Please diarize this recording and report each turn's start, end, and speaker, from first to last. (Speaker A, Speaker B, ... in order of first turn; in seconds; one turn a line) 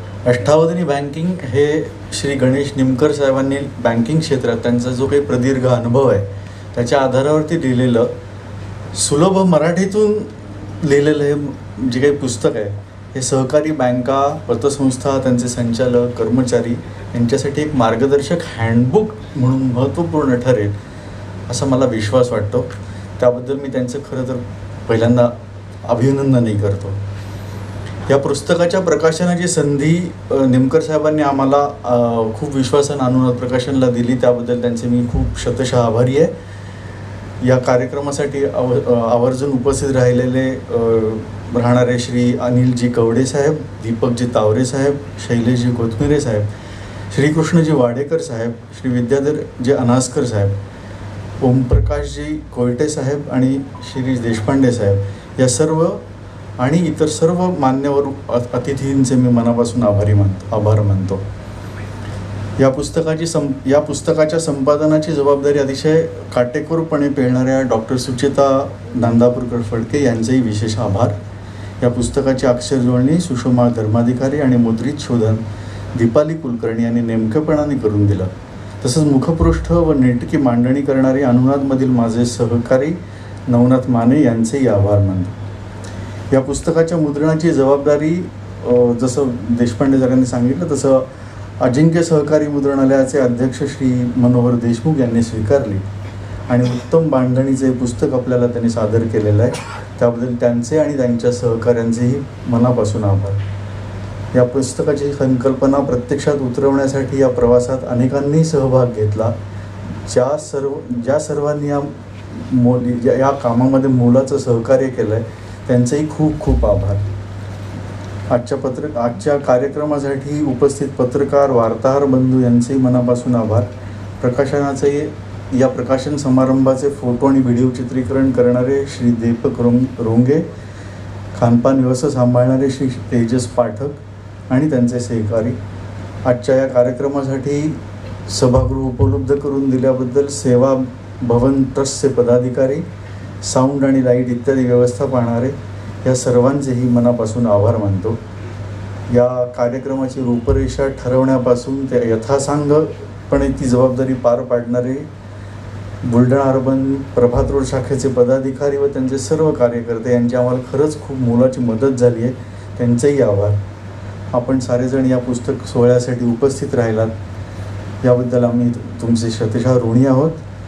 Speaker A: 0.2-8.1
Speaker A: 8.9-20.8
Speaker A: 21.5-27.0
Speaker A: 28.1-36.3
Speaker A: 37.4-46.5
Speaker A: 47.1-50.6
Speaker A: 51.4-56.0
Speaker A: 56.6-61.2
Speaker A: 62.6-71.2
Speaker A: 71.8-75.4
Speaker A: 75.9-85.3
Speaker A: 86.3-95.8
Speaker A: 96.5-103.4
Speaker A: 104.3-109.3
Speaker A: 110.0-117.0
Speaker A: 118.3-130.5
Speaker A: 131.3-135.6
Speaker A: 136.2-142.8
Speaker A: 143.4-148.2
Speaker A: 149.1-155.1
Speaker A: 156.0-163.6
Speaker A: 164.3-167.1
Speaker A: 168.0-170.4